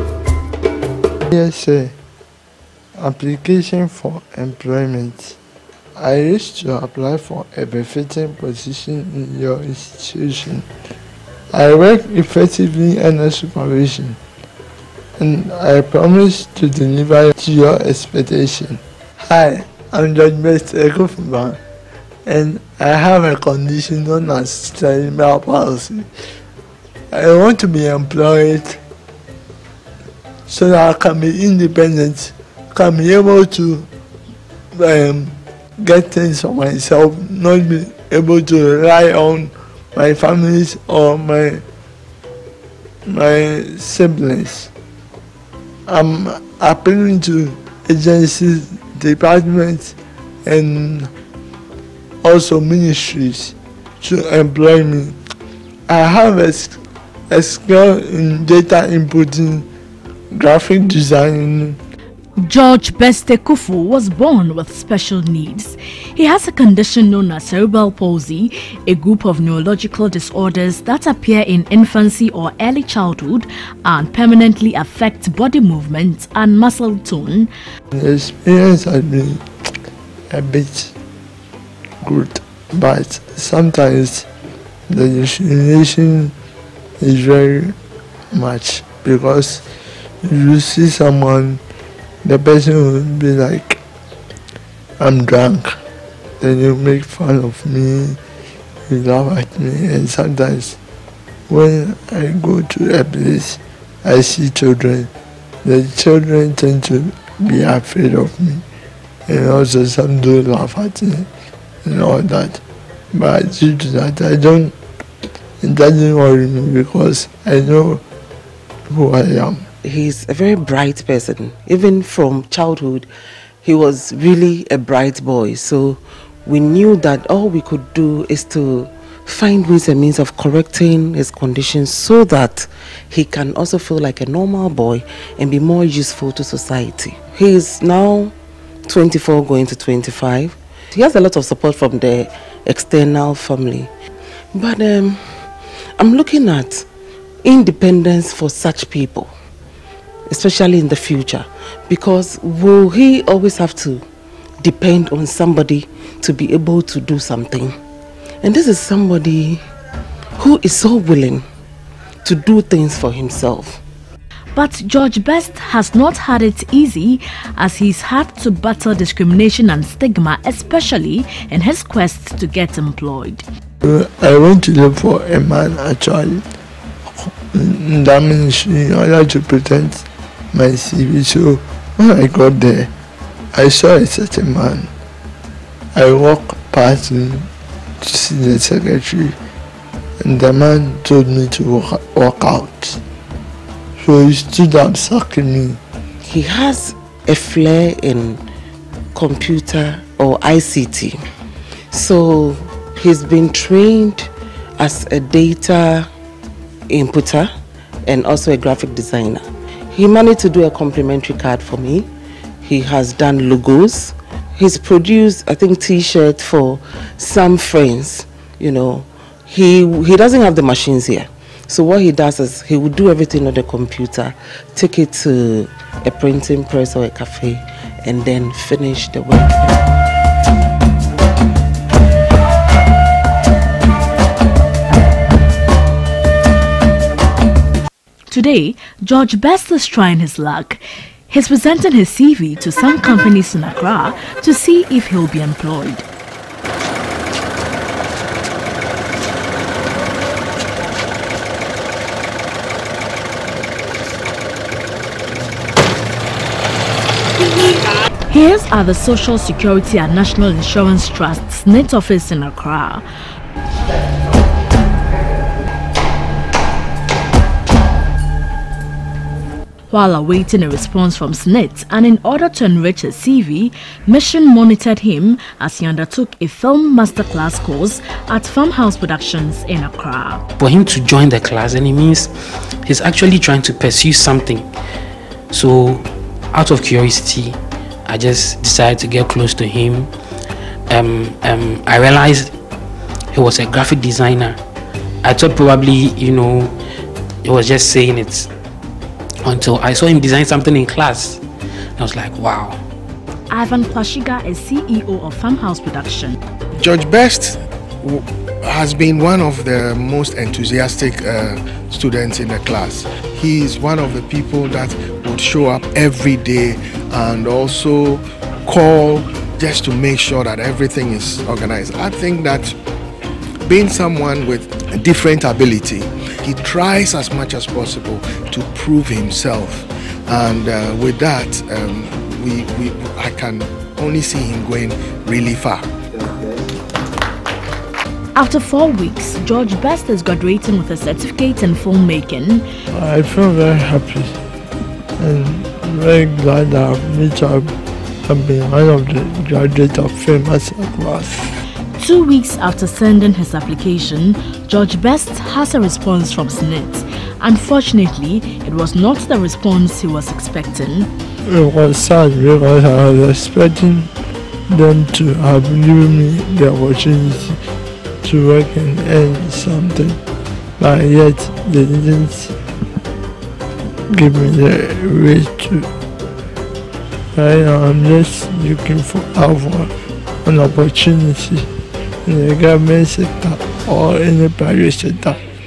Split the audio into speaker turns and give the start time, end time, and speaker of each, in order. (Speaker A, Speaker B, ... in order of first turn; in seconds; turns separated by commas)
Speaker A: 1.3-1.9, Speaker A: 3.0-5.4, Speaker A: 6.0-10.7, Speaker A: 11.5-14.2, Speaker A: 15.2-21.6, Speaker A: 22.2-26.1, Speaker A: 27.1-28.8, Speaker A: 30.5-33.9, Speaker A: 34.7-41.6, Speaker A: 43.0-44.7, Speaker A: 45.9-51.1, Speaker A: 52.2-55.2, Speaker A: 55.9-59.6, Speaker A: 60.3-61.8, Speaker B: 62.4-77.5, Speaker A: 77.9-79.4, Speaker A: 80.3-80.9, Speaker A: 82.0-84.3, Speaker A: 84.9-86.3, Speaker A: 87.0-87.8, Speaker A: 88.3-89.6, Speaker A: 90.2-91.6, Speaker A: 92.2-93.8, Speaker A: 95.0-95.8, Speaker A: 96.4-98.2, Speaker A: 98.9-100.8, Speaker A: 101.5-105.1, Speaker A: 105.6-108.6, Speaker A: 109.3-111.3, Speaker A: 111.8-112.6, Speaker A: 113.1-114.7, Speaker A: 115.6-118.0, Speaker A: 118.9-119.7, Speaker C: 119.8-123.1, Speaker C: 123.6-138.3, Speaker C: 138.9-143.9, Speaker C: 144.5-145.4, Speaker C: 146.0-146.9, Speaker C: 147.4-149.3, Speaker C: 150.3-154.0, Speaker C: 154.6-157.7, Speaker C: 158.4-159.6, Speaker C: 160.4-161.4, Speaker C: 162.2-163.8, Speaker B: 164.5-173.4, Speaker A: 173.8-176.4, Speaker A: 177.2-182.9, Speaker A: 183.5-184.9, Speaker A: 185.9-187.5, Speaker A: 188.0-189.4, Speaker A: 190.2-193.0, Speaker A: 194.0-195.8, Speaker C: 196.2-198.4, Speaker C: 199.1-201.2, Speaker C: 201.9-206.1, Speaker C: 206.9-207.5, Speaker C: 208.1-212.1, Speaker C: 212.6-229.8, Speaker B: 238.3-246.1, Speaker B: 258.3-263.0, Speaker B: 269.9-280.4, Speaker D: 280.6-282.3, Speaker D: 282.8-284.6, Speaker D: 285.5-290.1, Speaker D: 290.9-292.5, Speaker D: 293.3-294.6, Speaker D: 295.2-296.7, Speaker D: 297.4-298.5, Speaker D: 299.4-301.4, Speaker D: 302.0-302.8, Speaker B: 303.5-306.4, Speaker E: 306.8-322.7, Speaker E: 323.6-336.6, Speaker B: 338.3-342.6, Speaker A: 342.9-344.4, Speaker A: 345.2-347.7, Speaker A: 348.3-351.4, Speaker B: 352.0-361.1, Speaker A: 361.4-364.1, Speaker A: 364.7-367.6, Speaker A: 368.2-370.2, Speaker A: 370.8-372.5, Speaker A: 374.1-375.9, Speaker A: 377.3-379.9, Speaker A: 380.4-381.7, Speaker A: 382.2-385.4